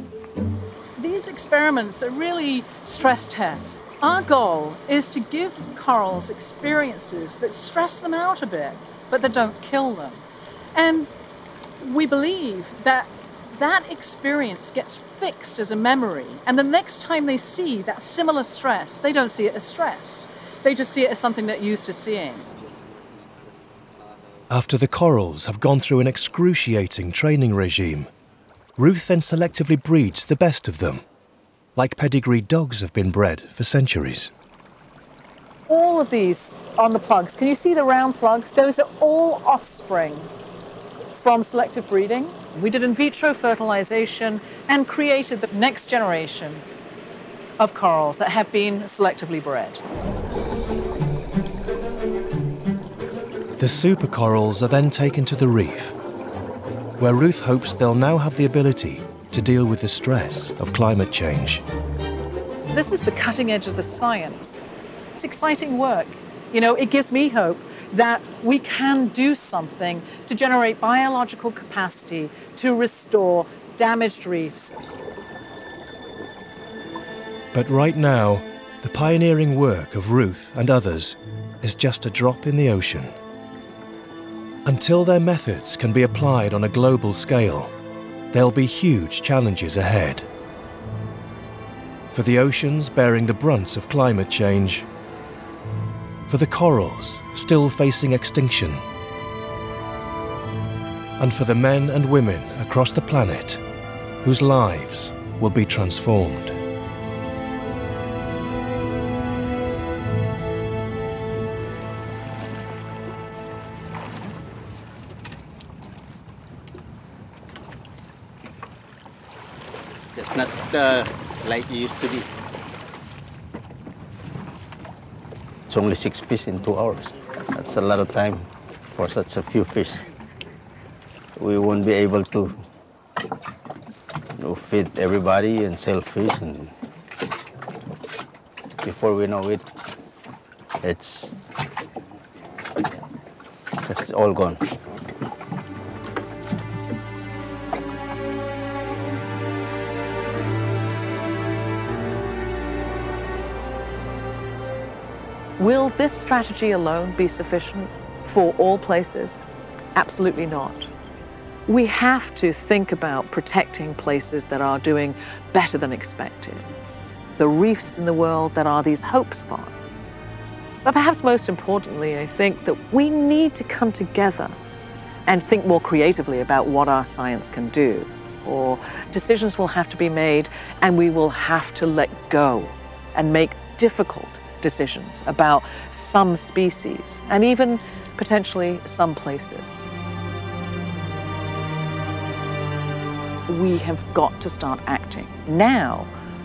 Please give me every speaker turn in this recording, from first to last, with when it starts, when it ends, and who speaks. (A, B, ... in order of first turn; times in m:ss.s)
0:01.0-0:10.2 A
0:10.8-0:11.1 A
0:11.8-0:22.5 A
0:24.5-0:28.1 B
0:28.8-0:31.0 B
0:31.8-0:34.3 B
0:35.7-0:40.3 A
0:41.1-0:46.6 A
0:47.6-0:49.8 A
0:53.6-0:56.0 B
0:57.0-1:01.6 B
1:02.7-1:04.6 A
1:05.2-1:14.7 A
1:17.5-1:23.1 B
1:24.6-1:27.7 B
1:28.3-1:30.3 B
1:32.1-1:34.9 B
1:36.3-1:38.8 B
1:41.2-1:43.6 B
1:44.2-1:46.6 B
2:00.1-2:02.3 C
2:05.7-2:10.0 C
2:11.4-2:12.6 C
2:14.4-2:16.7 C
2:18.8-2:19.6 C
2:20.8-2:21.4 C
2:23.9-2:24.6 C
2:35.6-2:39.4 D
2:40.0-2:40.9 D
2:41.7-2:46.7 D
2:47.4-2:50.1 D
2:50.8-2:54.6 D
2:55.3-3:09.8 D
3:13.5-3:16.1 D